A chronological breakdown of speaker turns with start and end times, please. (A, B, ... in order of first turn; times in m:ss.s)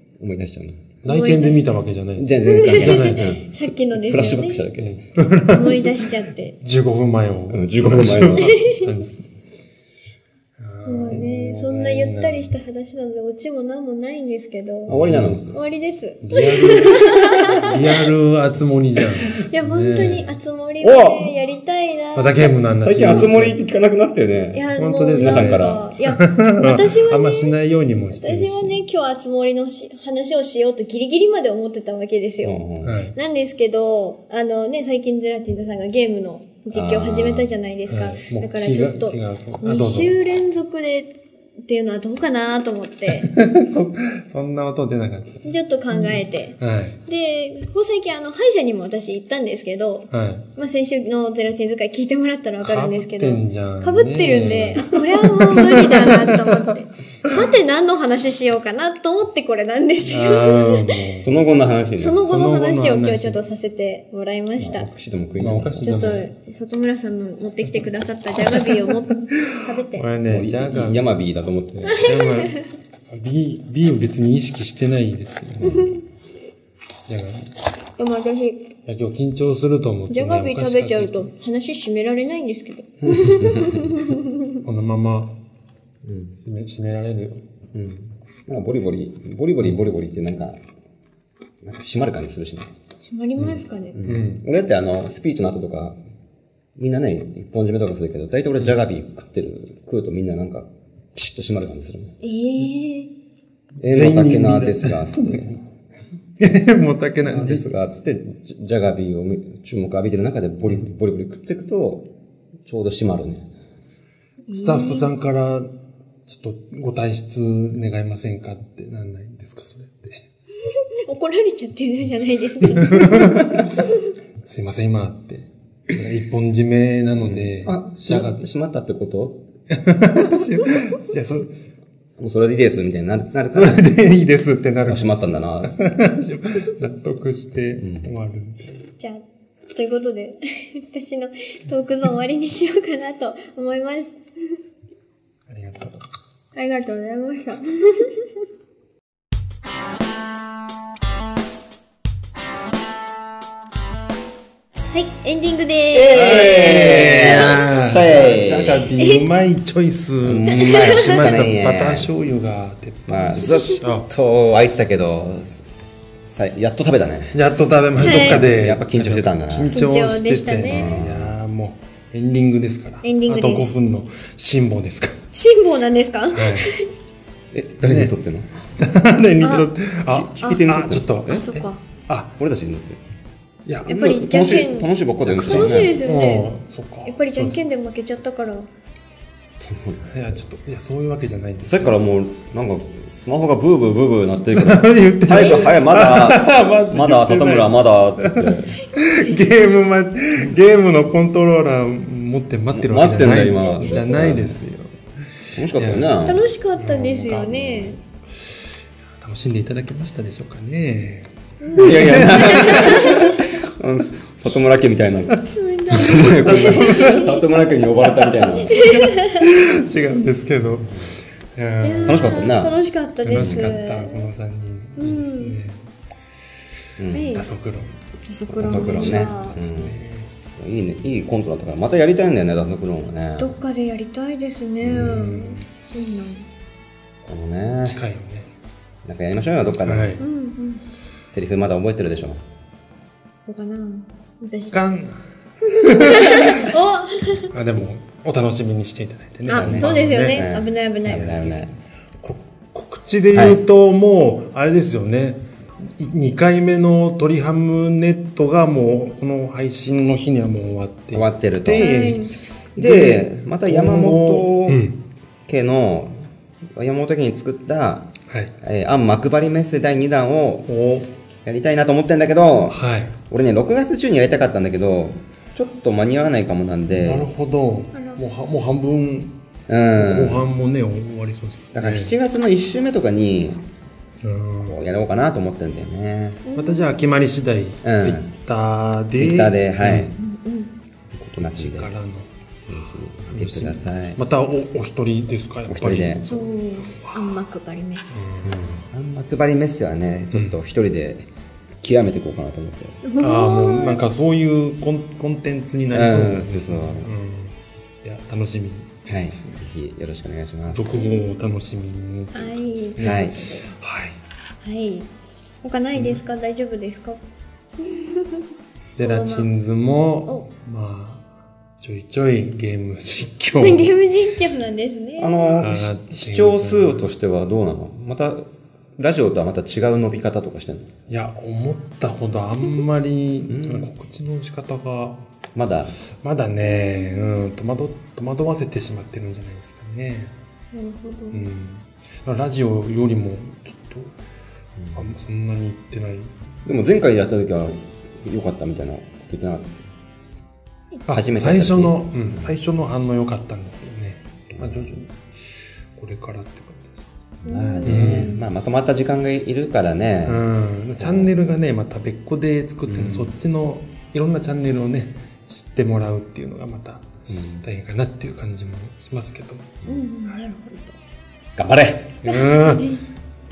0:00.2-0:00.8 A
0:01.0-0:03.3 B
0:01.0-0:01.9 C
0:02.2-0:05.0 A
0:02.4-0:04.6 C
0:04.8-0:09.2 B
0:05.5-0:06.6 C
0:07.5-0:08.6 A
0:08.3-0:09.0 C
0:10.6-0:12.5 B
0:10.8-0:15.0 C
0:14.9-0:15.5 A
0:14.9-0:15.6 B
0:15.5-0:17.8 C
0:16.2-0:20.4 B
0:19.3-0:23.3 C
0:20.8-0:21.3 A
0:22.1-0:23.6 B
0:22.8-0:25.8 A
0:24.5-0:27.6 C
0:24.8-0:28.8 B
0:28.1-0:32.6 C
0:32.4-0:33.0 A
0:32.8-0:33.2 B
0:33.1-0:41.1 C
0:36.7-0:37.5 A
0:37.9-0:40.2 B
0:41.6-0:43.3 C
0:43.2-0:47.0 B
0:45.4-1:01.0 C
0:50.1-0:50.4 B
0:52.6-0:56.6 B
1:00.0-1:01.3 B
1:01.2-1:02.2 A
1:02.0-1:04.9 C
1:02.2-1:03.4 B
1:04.6-1:06.2 A
1:05.4-1:06.3 B
1:05.8-1:10.1 C
1:08.5-1:08.9 B
1:09.4-1:11.0 B
1:10.2-1:12.0 A
1:11.8-1:12.6 C
1:12.0-1:12.6 B
1:13.1-1:16.0 B
1:15.7-1:15.9 C
1:17.1-1:17.5 B
1:18.0-1:18.6 C
1:18.8-1:21.3 B
1:20.1-1:24.6 C
1:23.0-1:23.9 A
1:24.6-1:25.3 B
1:26.0-1:26.3 A
1:26.4-1:27.4 B
1:27.7-1:30.6 A
1:31.6-1:32.7 A
1:33.0-1:34.0 C
1:33.4-1:34.4 B
1:33.9-1:36.0 A
1:36.8-1:42.2 A
1:42.2-1:43.1 C
1:43.8-1:45.6 A
1:43.8-1:45.6 B
1:46.4-1:47.7 B
1:47.3-1:52.1 A
1:52.6-1:53.5 A
1:54.5-1:55.1 C
1:54.5-1:55.7 B
1:56.2-2:00.2 B
2:00.9-2:03.4 C
2:02.7-2:03.5 B
2:04.4-2:08.4 B
2:07.2-2:09.4 A
2:09.7-2:11.5 B
2:12.2-2:13.8 A
2:13.5-2:18.8 B
2:14.9-2:15.8 A
2:17.8-2:18.1 A
2:19.0-2:24.6 C
2:25.5-2:26.0 B
2:26.5-2:28.3 C
2:34.9-2:37.6 C
2:35.9-2:38.9 A
2:36.1-2:44.1 B
2:39.0-2:39.2 C
2:40.2-2:42.1 A
2:40.5-2:41.3 C
2:43.1-2:45.6 A
2:46.2-2:47.4 A
2:47.3-2:55.2 B
2:47.9-2:49.7 A
2:48.0-2:48.5 C
2:49.7-2:51.0 C
2:50.7-2:51.3 A
2:53.0-2:53.8 C
2:55.3-2:56.9 C
2:56.3-2:56.7 B
2:57.5-2:58.5 A
2:57.8-2:58.1 B
2:58.8-3:02.4 B
2:59.4-2:59.7 C
3:00.1-3:01.4 A
3:00.4-3:00.7 C
3:01.3-3:01.8 C
3:02.4-3:03.0 A
3:03.6-3:04.0 B
3:03.8-3:06.0 A
3:03.9-3:06.5 C
3:05.2-3:07.6 B
3:07.0-3:08.7 C
3:09.6-3:10.1 A
3:10.1-3:12.0 B
3:11.6-3:18.8 A
3:14.5-3:26.2 B
3:15.3-3:15.7 C
3:19.0-3:19.4 C
3:22.7-3:24.6 A
3:25.5-3:26.5 A
3:26.2-3:28.0 C
3:26.8-3:33.4 B
3:31.6-3:33.4 C
3:31.8-3:39.0 A
3:35.4-3:39.5 C
3:35.9-3:37.3 B
3:38.7-3:42.4 B
3:41.8-3:44.3 C
3:42.0-3:42.8 A
3:43.2-3:45.8 B
3:43.3-3:43.7 A
3:45.0-3:45.6 C
3:47.0-3:47.4 A
3:47.1-3:47.5 C
3:47.3-3:48.0 B
3:48.2-3:49.6 C
3:48.5-3:50.0 A
3:48.6-3:50.3 B
3:50.6-3:53.6 A
3:53.4-3:56.5 C
3:54.8-3:55.1 A
3:54.8-3:55.7 B
3:57.2-3:58.0 A
3:57.8-3:58.5 B
3:59.0-4:00.2 A
3:59.8-4:00.2 B
4:00.2-4:00.8 C
4:01.3-4:02.4 A
4:03.4-4:04.7 C
4:04.7-4:06.7 B
4:05.8-4:07.5 C
4:07.5-4:10.5 B
4:09.5-4:11.5 C
4:09.5-4:11.7 A
4:11.0-4:11.6 B
4:12.2-4:25.0 B
4:13.3-4:13.6 A
4:21.1-4:22.1 A
4:21.8-4:22.3 C
4:22.8-4:24.8 A
4:25.5-4:28.1 A
4:28.6-4:30.7 A
4:30.7-4:31.1 B
4:31.4-4:37.3 A
4:32.7-4:33.2 B
4:36.9-4:39.3 B
4:37.9-4:38.2 C
4:39.7-4:40.4 A
4:39.9-4:42.1 B
4:41.7-4:43.6 A
4:44.2-4:44.8 B
4:44.6-4:46.4 A
4:46.4-4:47.0 C
4:46.6-4:50.1 B
4:47.8-4:48.3 A
4:49.1-4:50.2 A
4:50.2-4:50.7 C
4:51.2-4:52.3 B
4:51.3-4:51.9 A
4:52.6-4:54.2 A
4:53.3-4:57.4 B
4:55.7-4:56.3 A
4:56.3-4:58.2 C
4:58.1-4:58.7 B
4:58.4-5:01.3 A
5:00.3-5:00.6 B
5:01.8-5:03.0 A
5:03.0-5:04.0 C
5:03.2-5:09.6 B
5:05.9-5:07.1 A
5:09.0-5:11.0 A
5:10.7-5:14.2 B
5:10.9-5:11.5 C
5:12.3-5:13.7 C
5:13.0-5:13.4 A
5:14.6-5:15.1 C
5:15.6-5:17.2 C
5:15.9-5:16.2 B
5:17.8-5:18.5 C
5:19.0-5:21.3 B
5:19.0-5:19.5 C
5:21.8-5:23.9 B
5:23.6-5:25.6 C
5:25.2-5:30.9 A
5:25.6-5:27.0 B
5:31.1-5:35.2 B
5:33.5-5:33.9 A
5:35.5-5:35.9 A
5:36.2-5:40.3 B
5:36.6-5:37.4 C
5:40.7-5:41.4 C
5:41.3-5:44.1 B
5:44.8-5:45.0 A
5:44.9-5:46.3 B
5:46.6-5:49.8 A
5:51.1-5:57.1 B
5:51.1-5:52.5 A
5:54.5-5:54.9 A
5:57.4-6:00.4 A
5:57.4-5:58.4 C
5:57.8-5:58.3 B
6:00.2-6:07.1 B
6:01.0-6:01.3 A
6:02.9-6:03.3 A
6:07.3-6:07.6 A
6:07.6-6:09.8 B
6:09.8-6:10.9 C
6:11.6-6:12.1 A
6:12.2-6:13.0 B
6:12.2-6:13.0 C